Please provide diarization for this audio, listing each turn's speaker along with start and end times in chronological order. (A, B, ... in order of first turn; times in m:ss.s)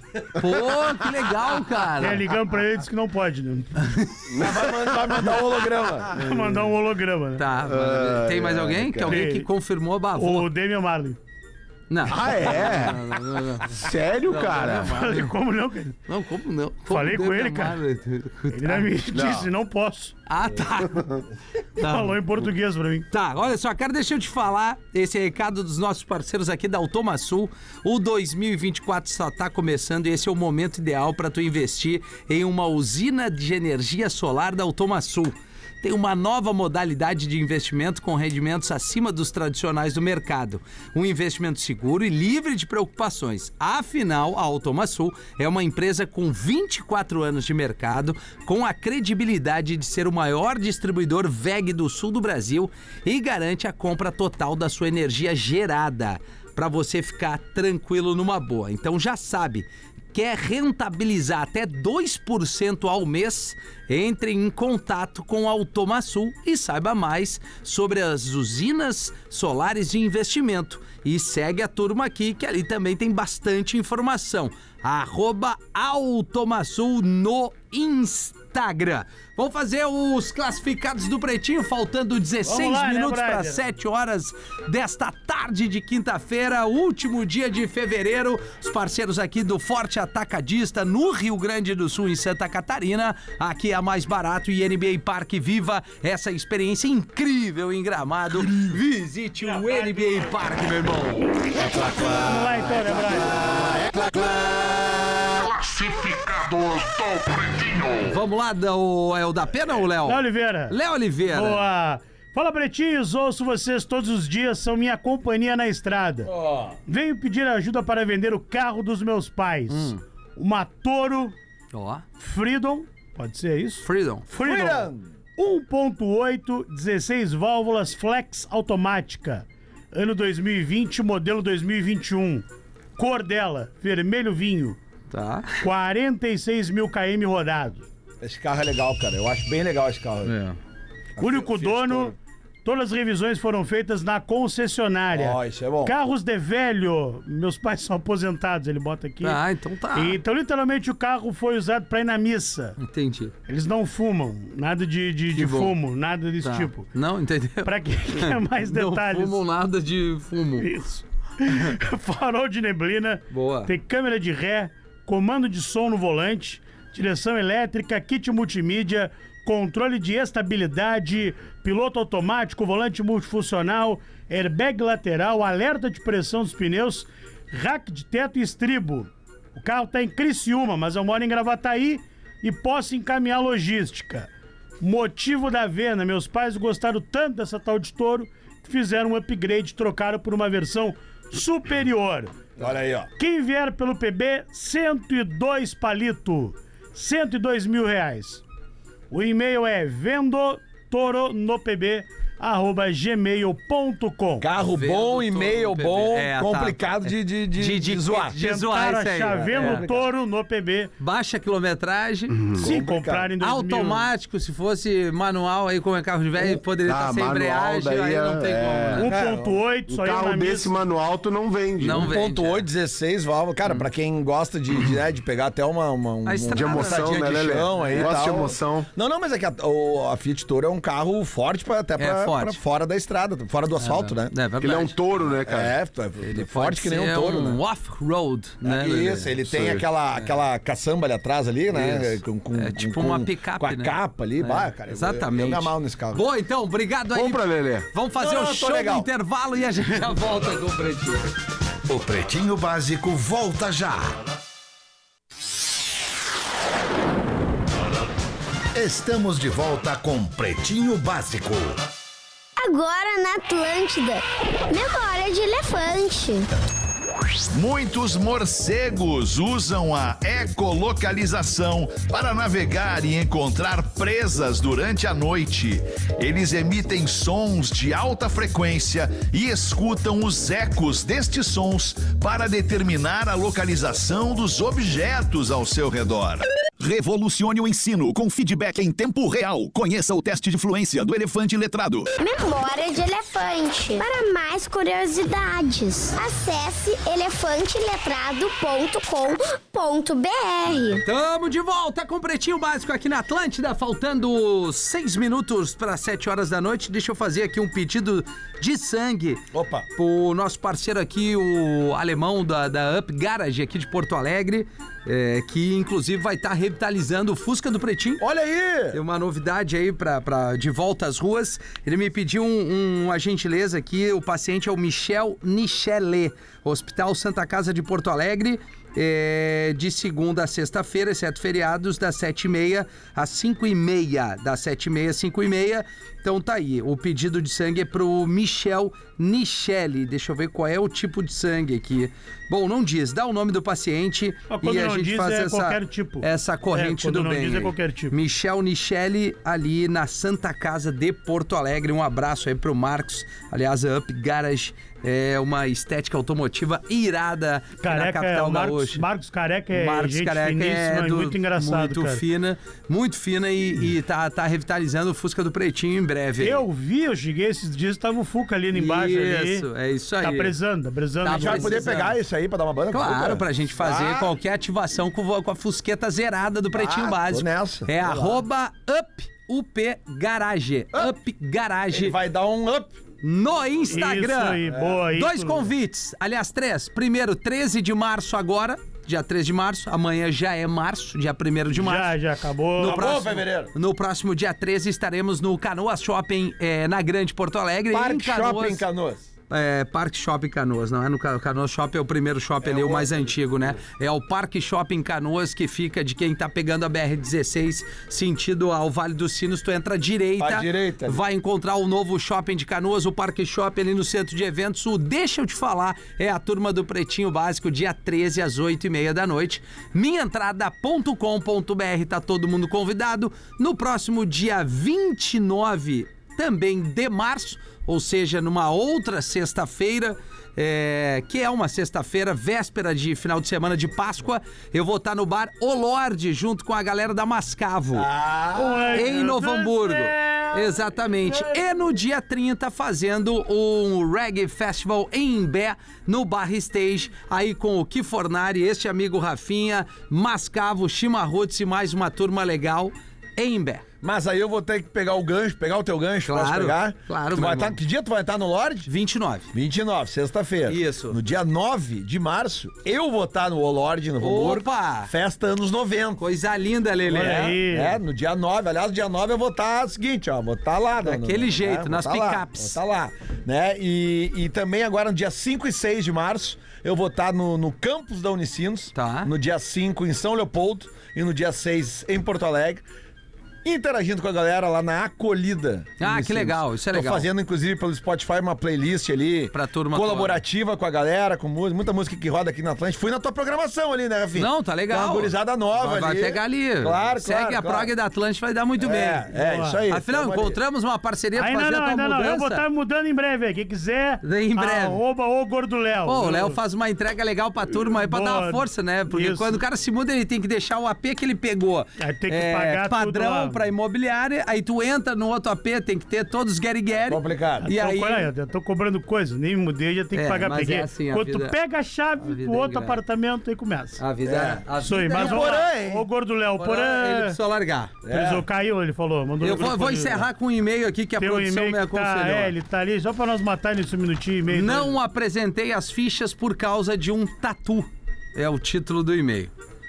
0:00.4-0:02.2 A
0:02.0-0:03.9 B
0:04.3-0:05.4 C
0:04.3-0:06.2 D
0:06.1-0:06.7 C
0:06.1-0:07.4 B
0:07.4-0:10.5 A
0:07.6-0:09.2 C
0:09.1-0:09.5 B
0:10.2-0:11.2 B
0:11.9-0:15.3 A
0:12.0-0:13.1 C
0:13.6-0:15.1 C
0:14.9-0:16.0 B
0:16.1-0:18.9 A
0:16.9-0:17.8 B
0:18.5-0:20.2 B
0:19.1-0:19.5 C
0:20.3-0:21.2 A
0:20.9-0:21.2 C
0:21.8-0:23.1 B
0:21.8-0:22.2 A
0:23.1-1:41.8 A
1:22.4-1:23.6 B
1:42.0-1:43.5 B
1:43.6-1:43.9 C
1:45.6-1:47.9 E
1:48.0-1:51.7 A
1:50.0-1:56.3 B
1:56.3-1:56.8 D
1:56.9-2:01.4 B
1:59.7-2:00.0 A
2:01.7-2:02.0 A
2:02.2-2:12.4 B
2:03.8-2:04.3 A
2:04.3-2:05.1 D
2:13.0-2:14.8 B
2:15.1-2:15.6 A
2:15.6-2:17.9 B
2:18.2-2:20.4 D
2:20.2-2:20.6 A
2:21.2-2:22.2 D
2:21.2-2:29.4 B
2:25.1-2:25.9 D
2:29.2-2:30.2 A
2:29.9-2:32.8 B
2:32.8-2:33.3 A
2:33.5-2:36.9 B
2:35.4-2:35.8 A
2:36.4-2:40.7 A
2:37.6-2:39.4 B
2:40.6-3:04.3 B
2:43.3-2:43.7 A
3:04.8-3:12.4 B
3:12.6-3:13.1 D
3:13.2-3:18.4 B
3:19.1-3:24.5 B
3:24.4-3:28.4 D
3:24.6-3:29.9 A
3:28.4-3:30.9 B
3:29.3-3:30.0 D
3:31.0-3:32.4 A
3:32.3-3:32.7 C
3:32.6-3:33.3 D
3:32.6-3:34.1 B
3:33.4-3:39.1 A
3:36.4-3:39.1 C
3:39.0-3:40.8 B
3:39.0-3:39.6 D
3:39.9-3:42.1 C
3:41.8-3:42.7 A
3:42.0-3:54.3 D
3:46.2-3:48.3 A
3:46.5-3:48.9 C
3:52.0-3:52.6 A
3:53.8-3:55.1 A
3:54.6-3:55.8 C
3:55.5-3:57.6 D
3:56.2-3:59.3 A
3:58.6-4:06.2 D
3:59.5-3:59.9 C
4:01.7-4:11.3 A
4:07.1-4:07.9 C
4:08.2-4:09.1 D
4:11.9-4:14.2 E
4:18.7-4:21.8 E
4:22.6-4:26.5 F
4:27.5-4:52.1 E
4:52.2-5:01.0 F
5:01.0-5:18.2 A
5:09.5-5:09.9 D
5:18.2-5:19.0 D
5:18.9-5:59.0 A
5:44.5-5:48.2 B
5:57.8-6:02.2 B
5:59.7-6:06.6 A
6:06.4-6:09.7 B
6:08.7-6:10.5 A
6:10.2-6:11.9 B
6:11.2-6:12.2 A
6:11.3-6:14.3 D
6:12.9-6:22.2 A
6:16.7-6:18.4 D
6:21.9-6:23.0 D
6:23.2-6:24.6 A
6:23.9-6:25.7 B
6:24.6-6:25.0 D
6:25.2-6:32.2 A
6:31.7-6:33.1 B
6:32.8-6:33.7 D
6:32.8-6:38.8 A
6:37.9-6:39.3 D
6:39.5-7:18.1 A
6:42.6-6:43.3 D
6:50.4-6:51.2 D
7:18.0-7:19.4 D
7:18.6-7:20.5 B
7:18.9-7:33.8 A
7:34.0-7:38.9 D
7:36.3-7:37.8 A
7:38.9-7:39.5 A
7:39.5-7:46.2 D
7:40.7-7:41.2 A
7:44.2-7:45.1 A
7:46.2-7:47.6 A
7:47.1-8:02.8 D
7:47.1-7:48.0 B
7:51.0-7:52.8 A
7:59.0-7:59.3 A
8:03.6-8:17.9 D
8:06.0-8:07.3 A
8:09.5-8:10.4 A
8:14.4-8:19.3 A
8:18.8-8:20.6 D
8:19.3-8:19.8 B
8:19.9-8:22.6 A
8:21.4-8:26.6 B
8:24.2-8:25.0 A
8:26.1-8:38.3 A
8:27.7-8:29.6 B
8:32.0-8:33.6 B
8:37.0-8:37.7 D
8:37.6-8:44.0 B
8:40.1-8:41.6 A
8:42.2-8:43.0 A
8:44.0-8:45.7 A
8:44.2-8:46.1 D
8:44.8-8:47.4 B
8:46.6-8:48.0 A
8:48.0-8:48.4 D
8:48.1-8:50.3 B
8:49.4-8:52.5 A
8:51.2-8:55.0 B
8:54.5-8:59.5 A